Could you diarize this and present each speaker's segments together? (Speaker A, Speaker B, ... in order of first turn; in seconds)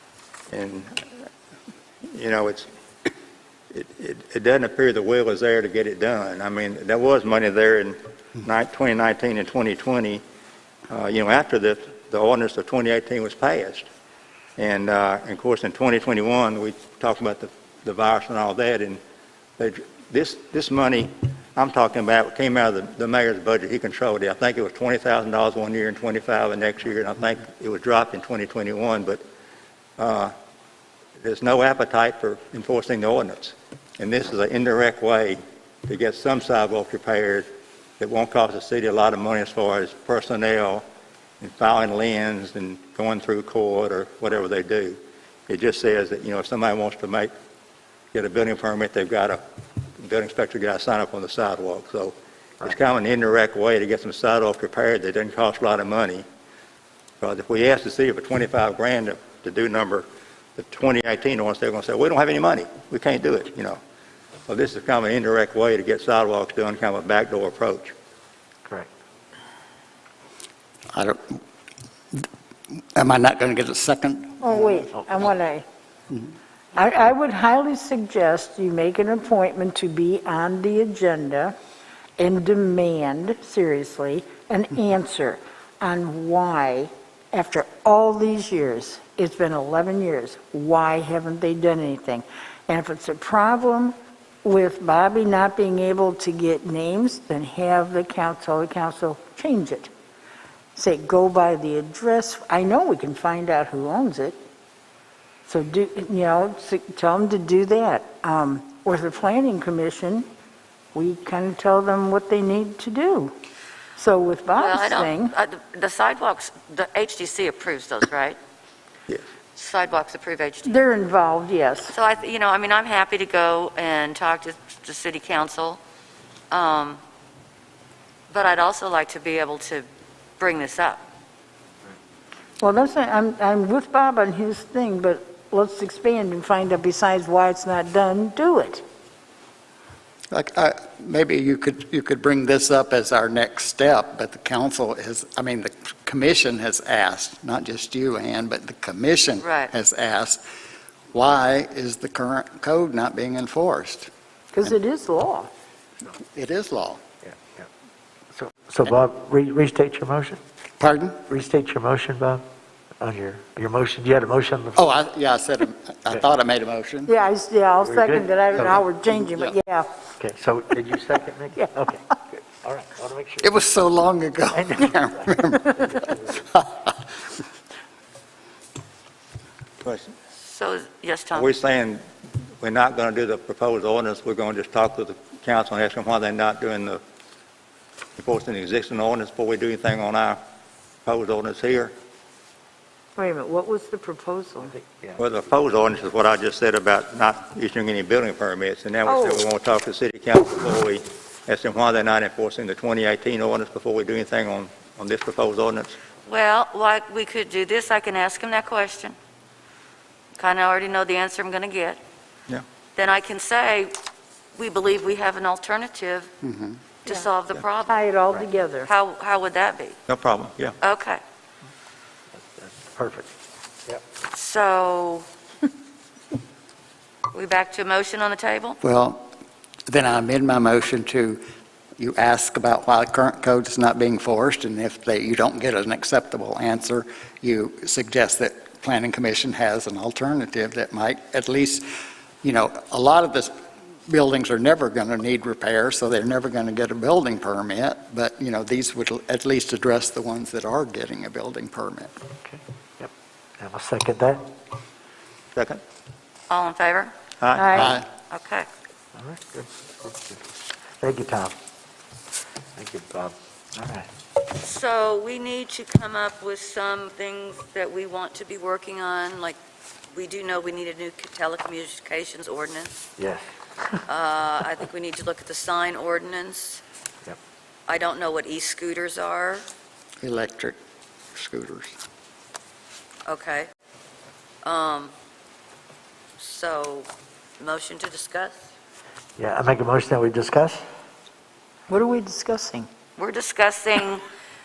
Speaker A: 0.5-0.9, 2.1-2.7, 3.7-10.2, 10.9-13.9, 14.6-19.0, 19.6-29.2, 30.0-30.3, 31.2-37.5, 38.0-40.8, 41.4-47.3, 48.1-49.4, 50.0-56.2, 57.2-60.1, 60.6-63.8, 64.5-67.9, 179.8-180.1, 181.3-182.0, 182.6-187.0, 188.2-190.4, 191.1-191.9, 195.2-206.0, 220.1-220.8, 255.6-255.8, 257.4-257.9
Speaker B: 70.9-71.4, 73.0-74.9, 140.3-150.4, 151.1-154.1, 156.3-157.0, 160.8-161.2, 164.8-167.1, 173.4-175.8, 176.4-176.9, 216.4-216.8, 228.8-229.3, 229.9-231.4, 232.0-241.8, 242.4-243.5, 244.1-252.1, 257.8-258.1, 280.2-280.8, 281.4-282.0
Speaker C: 74.4-75.6, 76.8-81.5, 82.2-99.9, 100.8-104.4, 105.5-110.3, 110.9-113.3, 114.0-115.3, 120.7-122.0, 132.6-138.8, 154.5-155.5, 167.1-169.9, 193.2-194.8, 199.1-199.4, 217.9-218.9, 257.6-258.0, 291.9-292.9
Speaker D: 114.6-118.4, 119.5-120.8, 121.9-125.8, 126.5-127.0, 128.3-129.9, 130.4-131.0, 149.4-149.7, 180.4-181.5, 206.3-209.2, 210.4-212.0, 213.0-213.9, 214.6-216.3, 217.1-218.0, 218.8-220.0, 220.8-221.2, 224.2-225.3, 227.3-228.8, 256.5-257.1, 258.3-258.7, 264.6-269.6, 270.1-272.9, 274.1-276.8, 277.9-279.7, 283.3-283.7, 284.6-285.1, 286.4-288.6, 293.2-294.3
Speaker E: 157.2-157.7, 158.3-160.4, 161.3-162.4, 163.0-164.9, 167.8-168.8, 170.2-173.5, 174.5-175.4, 175.9-176.4, 194.8-195.2, 222.4-223.3, 252.4-254.4, 259.2-260.4, 261.0-261.6, 262.8-264.1, 273.2-273.4, 289.4-290.8